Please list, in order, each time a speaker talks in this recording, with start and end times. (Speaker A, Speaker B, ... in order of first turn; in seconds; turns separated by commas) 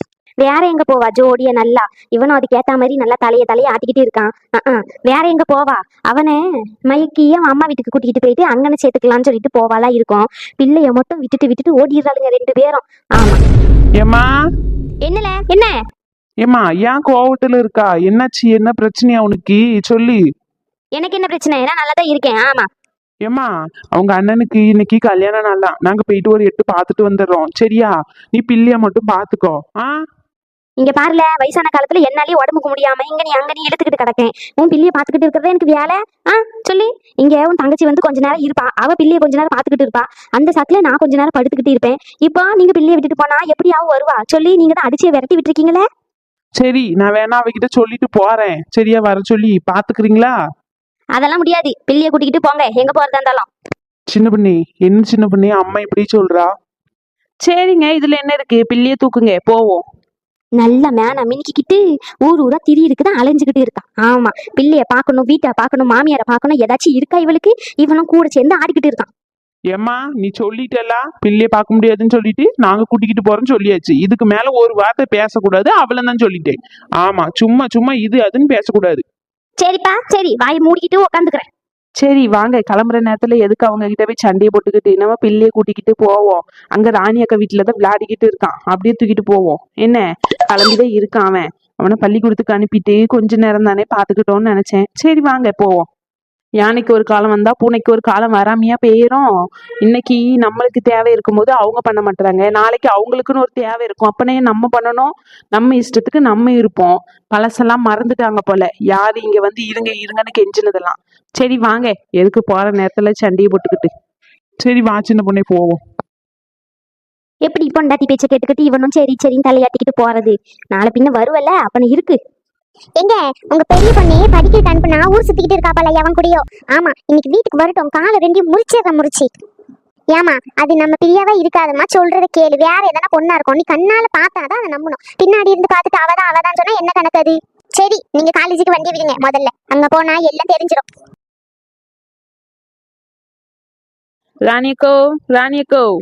Speaker A: 0.4-13.4, Speaker A: 15.0-15.8, Speaker B: 16.6-20.2, Speaker A: 20.9-22.7, Speaker B: 23.3-29.8, Speaker A: 30.8-45.8, Speaker B: 46.6-50.2, Speaker A: 51.1-53.5, Speaker B: 54.1-56.5, Speaker C: 57.4-59.8, Speaker A: 60.6-69.1, Speaker B: 69.7-79.0, Speaker A: 79.6-81.5, Speaker C: 82.0-95.8, Speaker C: 96.6-99.3, Speaker C: 99.8-113.9, Speaker B: 114.6-115.8, Speaker A: 117.4-122.2, Speaker D: 123.0-129.3, Speaker D: 130.1-140.8, Speaker C: 144.5-145.8